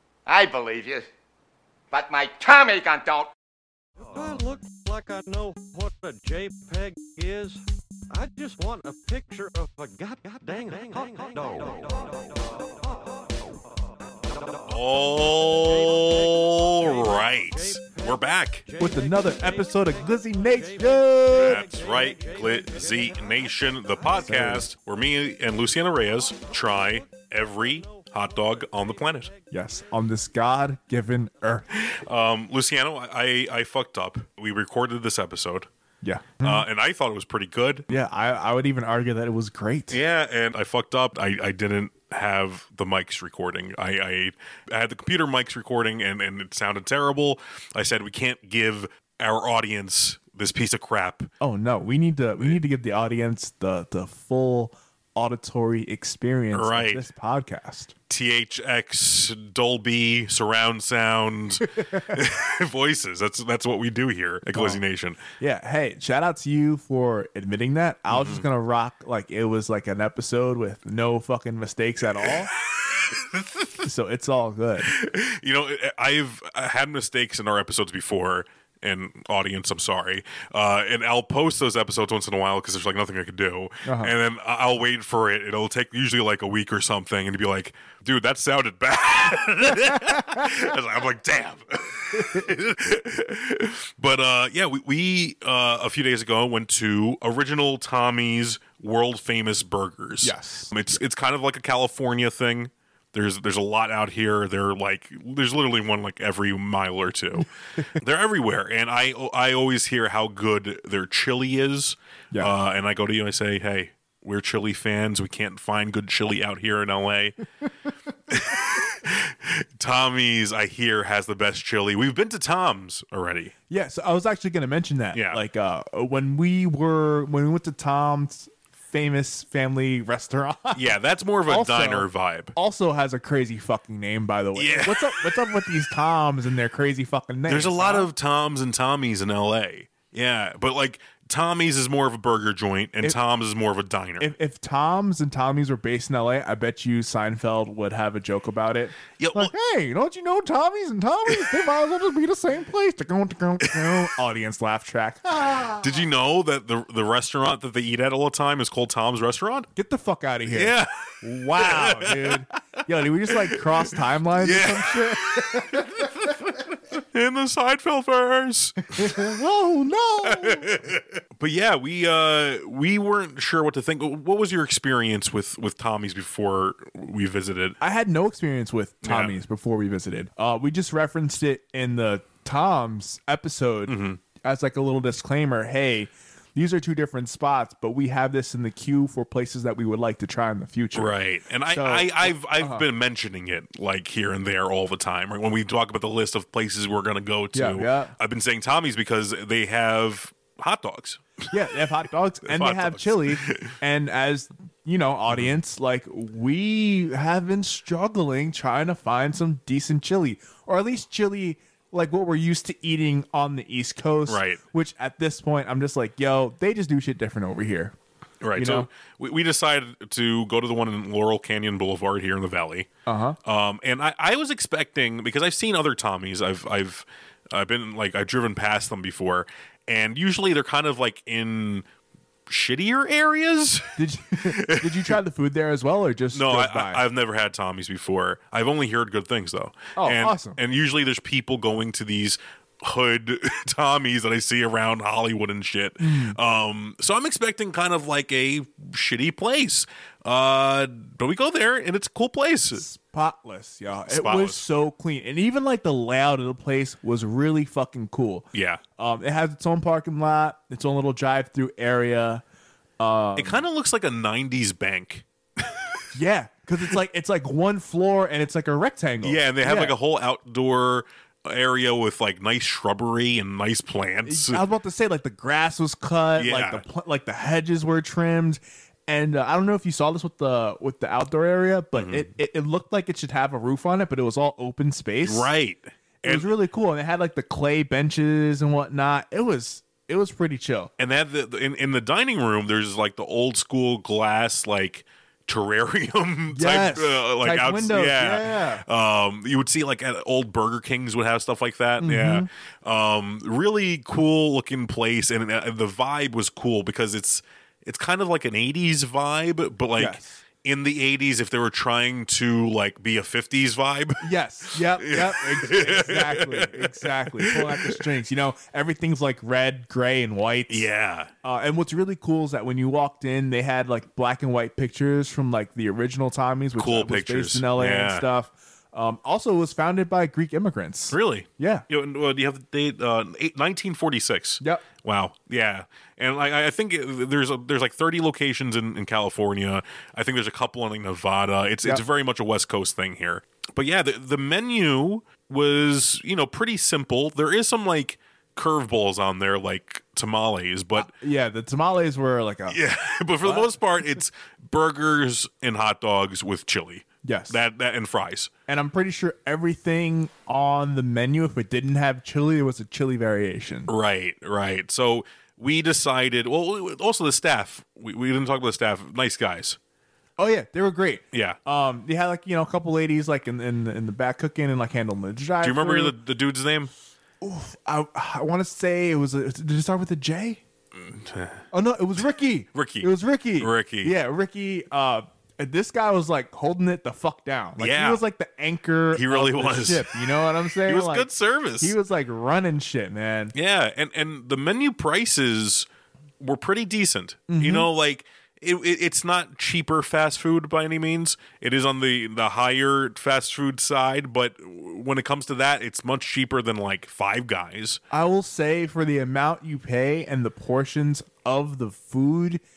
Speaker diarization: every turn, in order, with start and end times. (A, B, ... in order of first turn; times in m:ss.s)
0:00.3-0:01.1 A
0:01.9-0:03.3 A
0:04.0-0:13.2 B
0:14.2-0:14.8 B
0:14.7-0:18.6 C
0:15.3-0:24.5 B
0:18.8-0:21.6 D
0:21.3-0:29.3 C
0:24.2-0:24.7 D
0:26.3-0:29.6 B
0:29.5-0:31.7 D
0:31.7-0:35.7 C
0:36.0-0:36.7 D
0:36.4-0:37.9 C
0:37.9-0:40.0 D
0:39.9-0:51.3 C
0:51.4-0:57.9 D
0:56.5-0:57.1 C
0:58.1-1:05.2 C
1:01.7-1:02.2 D
1:04.5-1:04.8 D
1:05.4-1:12.5 D
1:08.1-1:08.4 C
1:12.2-1:13.9 C
1:13.8-1:14.9 D
1:14.8-1:57.4 C
1:23.8-1:24.1 D
1:40.2-1:40.8 D
1:58.3-2:03.5 C
2:03.7-2:10.9 D
2:05.1-2:05.4 C
2:10.7-2:12.5 C
2:11.5-2:18.1 D
2:14.6-2:15.8 C
2:17.5-2:24.3 C
2:24.2-2:35.9 D
2:29.2-2:29.5 C
2:33.6-2:34.0 C
2:35.8-2:39.7 C
2:39.8-2:46.3 D
2:40.5-2:49.2 C
2:48.8-2:50.8 D
2:50.2-2:57.8 C
2:57.8-3:11.1 D
2:59.0-2:59.4 C
3:03.9-3:04.2 C
3:10.9-3:21.9 C
3:11.7-3:12.8 D
3:17.5-3:18.1 D
3:21.5-3:37.9 D
3:22.4-3:23.8 C
3:34.3-3:34.6 C
3:38.4-3:42.9 C
3:38.6-3:38.9 D
3:43.1-3:43.4 D
3:43.4-3:51.9 C
3:52.5-3:55.2 C
3:54.0-3:57.0 D
3:56.3-4:12.8 C
4:00.0-4:00.6 D
4:06.0-4:06.4 D
4:12.8-4:22.4 D
4:14.1-4:14.6 C
4:18.5-4:18.8 C
4:23.0-4:23.6 D
4:23.4-4:26.0 C
4:26.1-4:30.0 D
4:29.2-4:34.6 C
4:34.2-4:45.5 D
4:36.4-4:36.8 C
4:42.0-4:42.3 C
4:45.2-4:46.5 C
4:46.2-4:50.9 D
4:51.0-5:18.0 C
4:56.5-4:58.8 D
5:02.0-5:02.5 D
5:10.0-5:10.4 D
5:14.2-5:20.9 D
5:20.7-5:21.3 C
5:21.4-5:31.9 D
5:26.8-5:28.3 C
5:31.1-5:51.1 C
5:51.0-5:52.8 D
5:52.7-5:58.5 C
5:53.4-5:53.7 D
5:57.2-5:57.6 D
5:58.7-6:03.9 D
6:03.9-6:09.8 C
6:10.4-6:16.2 D
6:11.3-6:11.6 C
6:15.6-6:16.9 C
6:17.4-6:20.6 D
6:21.0-6:21.6 C
6:21.7-6:31.3 D
6:22.7-6:24.2 C
6:27.8-6:28.2 C
6:29.1-6:30.2 C
6:30.8-6:32.0 C
6:31.8-6:33.5 D
6:33.5-6:35.9 C
6:36.4-6:48.0 C
6:37.5-6:37.9 D
6:48.1-6:52.6 D